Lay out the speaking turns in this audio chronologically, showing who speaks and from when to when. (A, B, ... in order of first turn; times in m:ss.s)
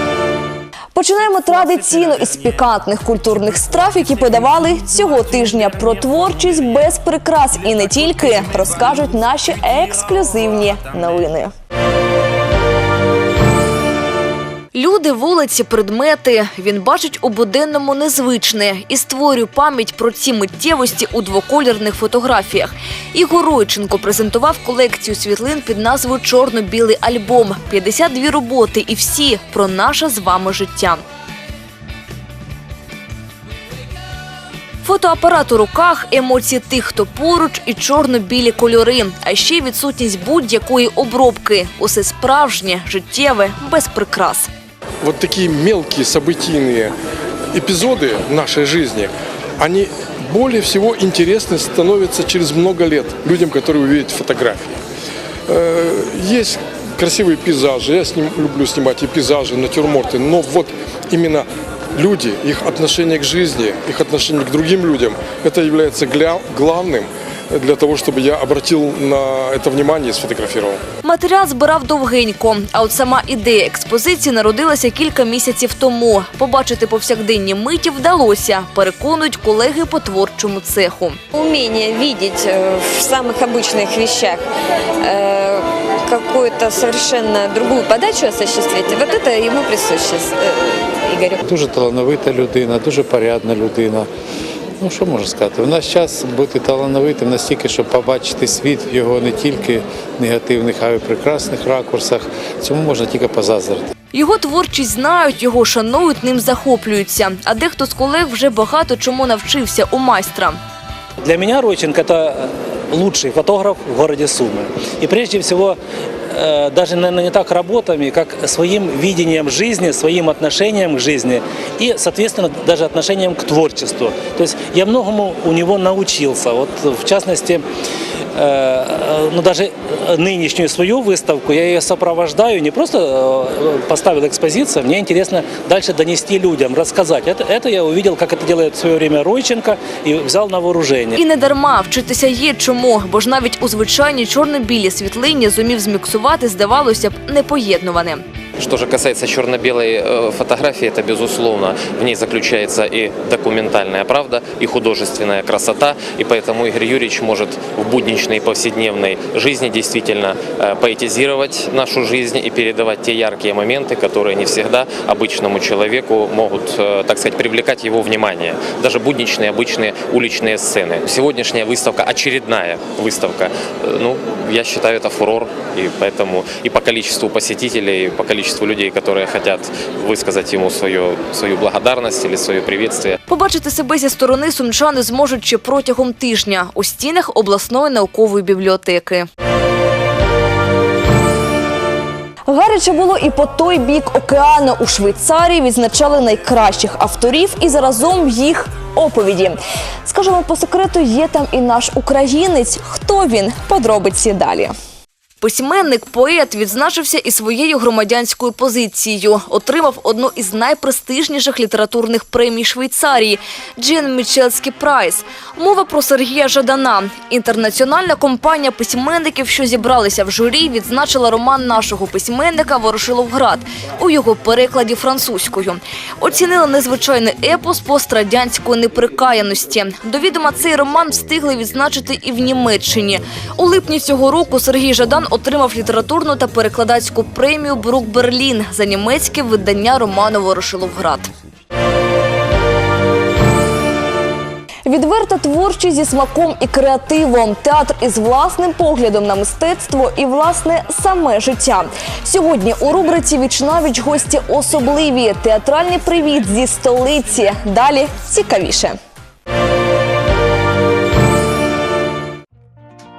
0:00.9-0:11.5 A
0:14.7-0:31.0 A
0:34.8-0:44.5 A
0:45.0-0:47.0 B
0:47.5-0:54.7 B
0:55.5-1:10.8 B
1:11.0-1:21.2 A
1:21.3-1:24.4 C
1:25.0-1:31.4 C
1:31.5-1:34.1 D
1:34.8-1:43.9 D
1:44.1-1:50.6 A
1:51.2-1:55.8 E
1:56.3-2:07.6 E
2:08.4-2:21.1 E
2:21.2-2:28.2 A
2:28.6-3:03.2 F
3:03.3-3:09.3 A
3:12.5-3:24.7 A
3:25.4-4:01.3 A
4:04.9-4:19.0 A